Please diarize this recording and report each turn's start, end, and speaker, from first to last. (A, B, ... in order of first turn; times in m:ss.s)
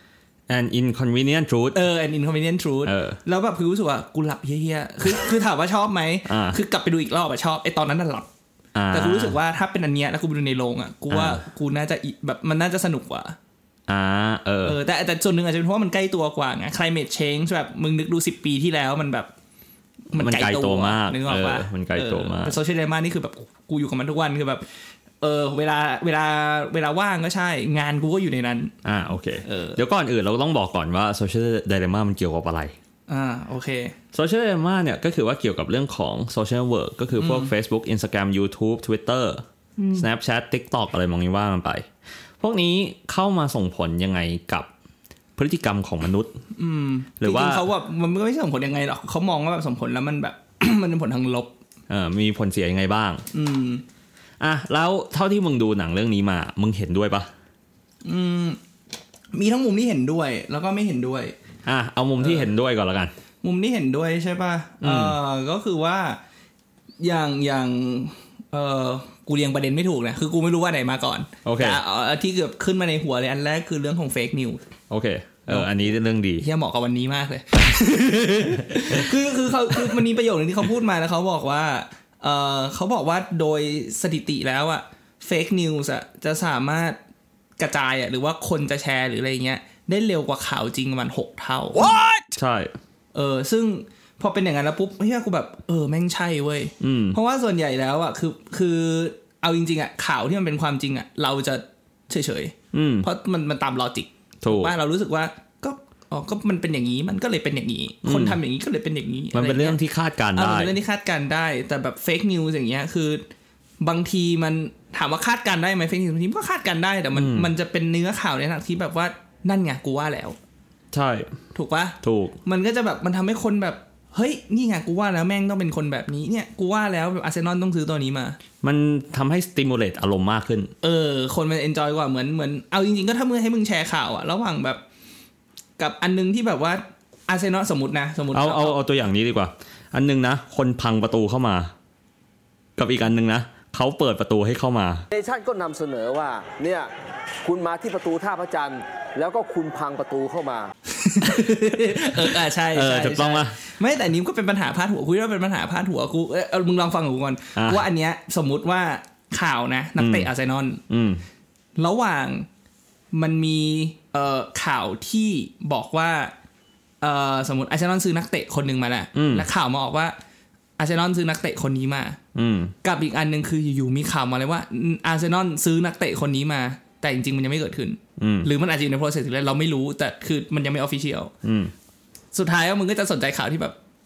0:00.5-0:01.8 A
0:01.7-0:08.3 B
0:02.8-0:03.2 A
0:06.3-0:06.6 A
0:08.7-0:09.4 A
0:08.9-0:13.4 B
0:11.1-0:11.4 A
0:13.9-0:14.8 A
0:14.6-0:19.3 B
0:20.1-0:24.6 B
0:20.1-0:22.6 A
0:25.2-0:28.7 B
0:28.8-0:32.7 A
0:29.4-0:29.8 B
0:33.1-0:33.9 B
0:34.1-0:41.8 A
0:37.2-0:37.5 B
0:39.8-0:40.0 B
0:42.4-0:44.7 A
0:45.4-0:46.3 A
0:46.6-0:51.5 B
0:47.2-0:47.6 A
0:51.9-0:53.2 A
0:53.3-0:53.8 B
0:54.4-0:57.3 A
0:58.0-0:58.6 B
0:59.3-1:01.3 B
1:01.6-1:03.1 A
1:02.2-1:02.5 B
1:03.4-1:06.2 B
1:04.8-1:05.2 A
1:07.0-1:14.6 B
1:11.4-1:11.8 A
1:14.9-1:16.4 A
1:15.5-1:27.0 B
1:18.7-1:20.0 A
1:27.6-1:32.0 B
1:31.8-1:32.7 A
1:33.1-1:49.8 B
1:36.8-1:37.2 A
1:42.7-1:43.1 A
1:44.4-1:44.7 A
1:48.0-1:48.4 A
1:49.3-1:50.7 A
1:50.3-1:53.2 B
1:53.8-2:00.4 B
1:57.1-1:57.5 A
2:00.9-2:01.3 A
2:01.5-2:08.4 B
2:02.0-2:02.4 A
2:08.6-2:10.7 A
2:10.8-2:14.8 B
2:15.8-2:18.8 B
2:18.3-2:21.7 A
2:22.8-2:25.0 A
2:25.1-2:26.9 C
2:27.4-2:30.7 C
2:30.9-2:40.8 B
2:32.0-2:33.6 A
2:37.6-2:37.8 A
2:40.0-2:40.3 A
2:40.9-2:41.2 A
2:41.8-2:42.5 B
2:43.1-2:46.3 B
2:47.0-2:50.1 B
2:49.1-2:49.5 A
2:50.8-2:52.2 B
2:52.3-2:52.7 A
2:52.8-3:01.3 B
2:58.2-2:58.5 A
3:01.4-3:01.7 A
3:02.3-3:03.8 B